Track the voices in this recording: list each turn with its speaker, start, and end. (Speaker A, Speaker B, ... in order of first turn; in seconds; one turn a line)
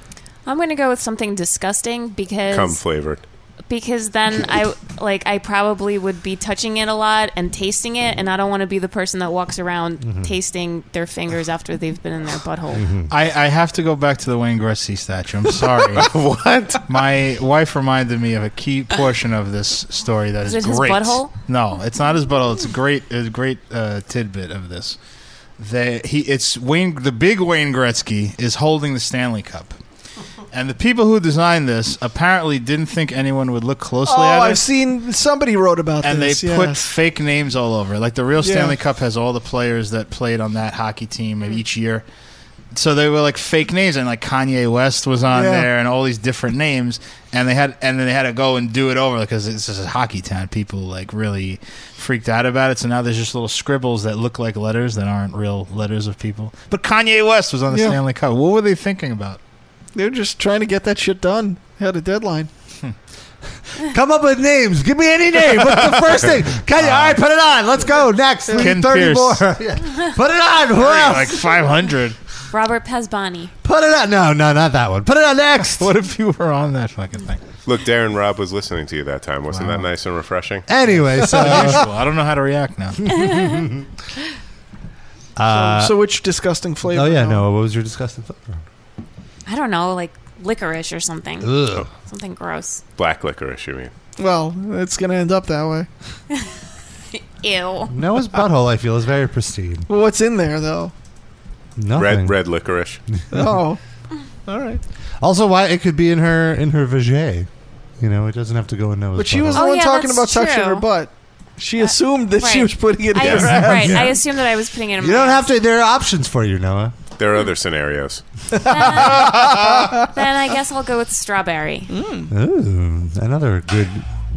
Speaker A: 0.5-2.8
Speaker B: 2.5-3.2
Speaker A: 3.7-12.9
Speaker C: 10.0-10.3
Speaker C: 12.7-13.1
Speaker D: 13.1-16.1
Speaker B: 16.0-16.8
Speaker D: 16.9-25.0
Speaker A: 20.4-21.3
Speaker D: 25.6-29.8
Speaker D: 30.5-34.6
Speaker E: 34.0-36.9
Speaker D: 36.0-42.0
Speaker E: 38.4-38.8
Speaker D: 42.7-59.4
Speaker E: 45.3-45.7
Speaker E: 57.7-58.0
Speaker E: 59.9-62.5
Speaker C: 63.8-71.5
Speaker D: 66.8-67.2
Speaker E: 68.5-68.8
Speaker D: 68.6-69.4
Speaker D: 70.8-72.2
Speaker A: 72.5-73.5
Speaker C: 73.6-75.9
Speaker D: 75.8-77.4
Speaker B: 77.7-80.7
Speaker D: 79.5-79.9
Speaker C: 80.7-81.9
Speaker D: 81.2-83.4
Speaker A: 83.2-83.6
Speaker C: 83.3-83.5
Speaker C: 85.4-86.0
Speaker E: 85.5-87.4
Speaker C: 86.9-88.6
Speaker A: 89.5-92.8
Speaker C: 91.4-91.9
Speaker B: 93.0-93.9
Speaker E: 94.2-95.9
Speaker A: 97.1-97.9
Speaker C: 97.9-99.9
Speaker E: 99.9-100.9
Speaker C: 101.8-102.4
Speaker B: 102.0-103.0
Speaker C: 103.1-103.6
Speaker E: 103.3-103.8
Speaker E: 104.5-104.8
Speaker C: 105.2-107.5
Speaker C: 108.0-109.7
Speaker E: 109.2-114.2
Speaker A: 109.5-110.8
Speaker A: 111.8-115.5
Speaker C: 113.2-114.2
Speaker C: 115.0-116.9
Speaker B: 117.2-118.2
Speaker A: 118.7-121.9
Speaker E: 119.0-119.9
Speaker E: 121.9-122.3
Speaker C: 122.3-124.0